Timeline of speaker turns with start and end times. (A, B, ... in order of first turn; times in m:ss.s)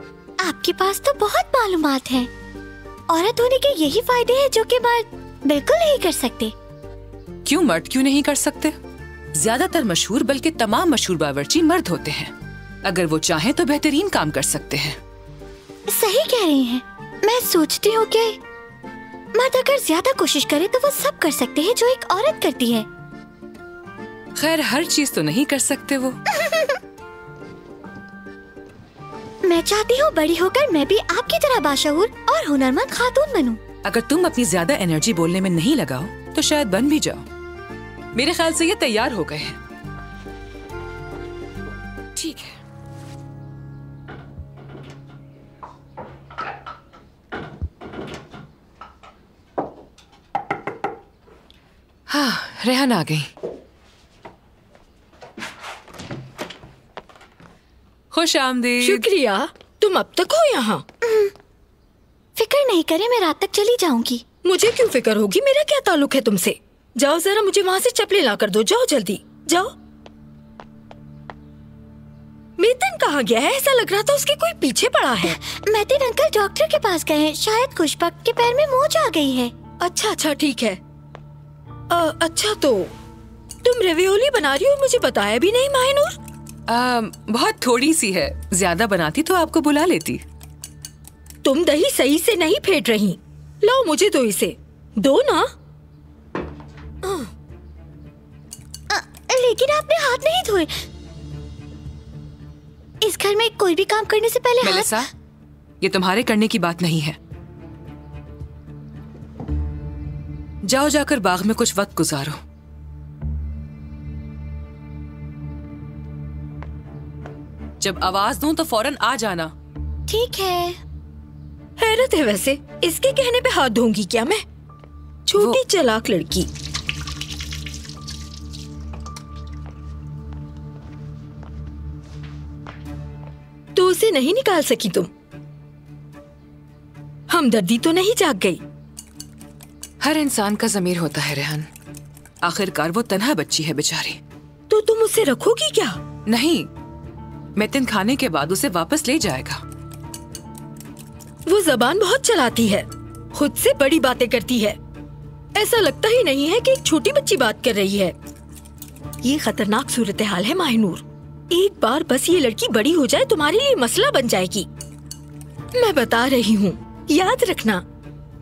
0:00.4-0:02.3 A
0:03.1-0:06.5 A
0:07.4-0:08.8 B
0:09.3-0:12.3 B
0:12.8-0:15.0 B
0:15.9-0:18.4 A
0:19.3-0:22.9 A
0:24.4-0:26.2 B
0:26.3-0:26.8 A
0:29.4-0:33.6 A
0:33.8-0:37.2 B
0:38.1-0:39.6 B
0:42.2-0:42.5 B
0:52.1-0:53.3 B
0:58.1-0:59.1 B
0:58.8-1:00.8 C
1:01.0-1:01.3 A
1:02.4-1:04.2 A
1:04.4-1:09.7 C
1:12.6-1:15.4 C
1:15.2-1:19.5 A
1:19.8-1:20.8 C
1:21.9-1:22.9 C
1:23.6-1:26.2 C
1:26.7-1:30.2 B
1:31.4-1:35.5 C
1:37.0-1:37.3 C
1:38.9-1:40.7 A
1:43.0-1:45.0 A
1:44.6-1:45.1 B
1:45.8-1:47.2 B
1:50.6-1:52.4 B
1:57.8-1:59.5 B
2:00.1-2:00.8 A
2:01.8-2:04.4 C
2:05.3-2:06.5 C
2:13.8-2:15.1 C
2:17.3-2:18.6 C
2:20.0-2:21.7 B
2:22.4-2:24.2 B
2:24.7-2:26.0 C
2:26.3-2:26.7 B
2:27.6-2:29.6 B
2:31.4-2:34.8 C
2:35.5-2:38.1 C
2:39.2-2:44.7 C
2:45.8-2:47.8 C